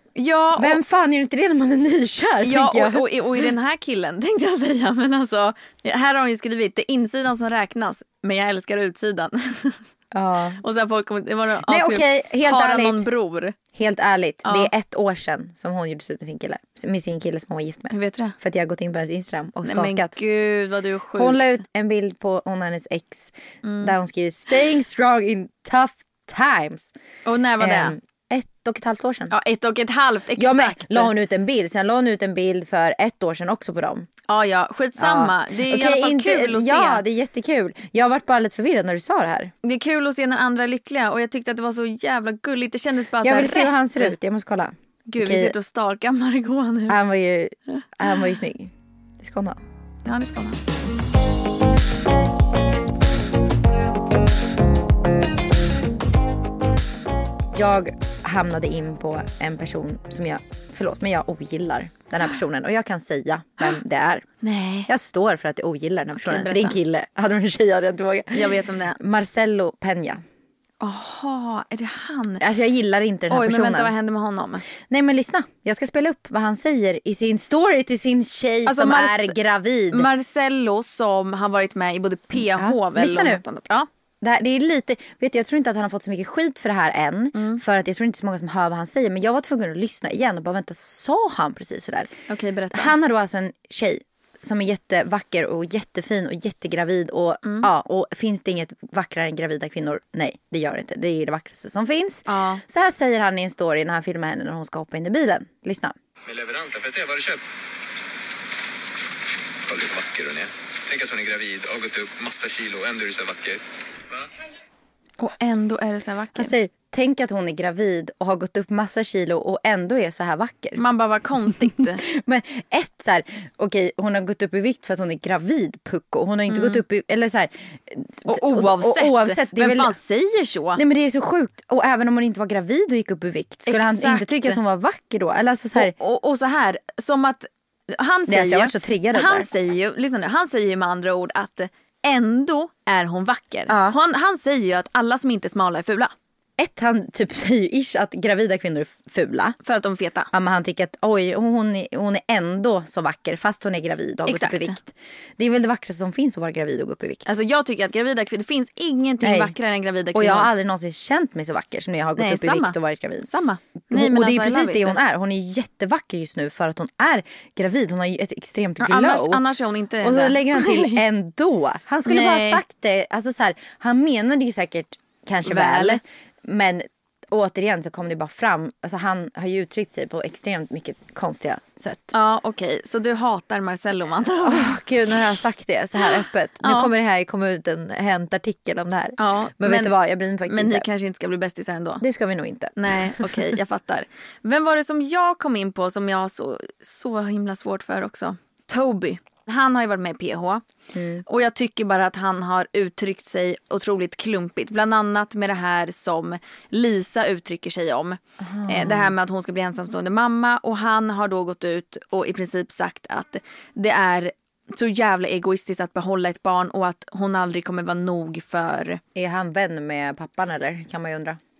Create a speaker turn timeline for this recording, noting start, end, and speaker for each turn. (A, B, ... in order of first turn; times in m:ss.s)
0:00.2-0:00.8 A
0:00.6-0:03.5 B
0:02.4-0:09.8 A
0:10.1-0:10.6 B
0:10.6-0:13.6 A
0:11.6-0:13.1 B
0:13.7-0:20.1 B
0:14.4-0:14.7 A
0:17.9-0:18.4 A
0:19.6-0:21.4 A
0:21.1-0:26.9 B
0:23.6-0:23.9 A
0:27.2-0:27.9 A
0:27.6-0:29.3 B
0:29.3-0:31.1 A
0:30.4-0:34.1 B
0:34.3-0:37.0 A
0:35.0-0:39.5 B
0:39.6-0:44.1 A
0:43.2-0:45.5 B
0:45.1-0:47.0 A
0:46.9-0:49.6 B
0:47.8-0:48.3 A
0:50.0-0:50.6 A
0:57.5-1:04.3 B
1:04.4-1:04.9 A
1:04.9-1:10.2 B
1:06.2-1:06.8 A
1:08.3-1:09.0 A
1:10.8-1:12.4 A
1:12.4-1:13.9 B
1:13.3-1:14.6 A
1:14.8-1:20.1 B
1:18.6-1:19.4 A
1:19.9-1:23.9 A
1:22.3-1:23.4 B
1:24.2-1:32.1 B
1:27.3-1:27.6 A
1:32.3-1:32.9 A
1:32.7-1:46.0 B
1:37.4-1:37.7 A
1:42.3-1:42.6 A
1:46.2-1:47.4 C
1:49.6-1:53.6 C
1:55.2-1:56.5 A
1:56.4-2:00.8 B
2:00.8-2:02.0 A
2:01.5-2:10.0 B
2:06.5-2:06.8 A
2:08.2-2:10.8 A
2:10.8-2:15.9 B
2:13.7-2:14.6 A
2:15.8-2:26.1 A
2:18.3-2:19.5 B
2:23.7-2:24.0 B
2:26.6-2:29.6 B
2:29.6-2:30.3 A
2:30.3-2:37.2 B
2:34.2-2:34.8 A
2:37.2-2:40.5 A
2:39.2-2:39.5 B
2:40.1-2:43.3 B
2:42.2-2:45.0 A
2:43.9-2:49.4 B
2:48.8-2:51.0 A
2:50.0-3:02.1 B
2:52.0-2:52.6 A
2:55.4-2:56.0 A
3:02.1-3:04.8 A
3:04.4-3:10.9 B
3:06.6-3:06.9 A
3:09.2-3:12.0 A
3:12.0-3:13.5 B
3:12.8-3:20.6 A
3:20.9-3:21.2 B
3:21.2-3:39.0 A
3:28.4-3:29.1 B
3:39.1-3:41.4 B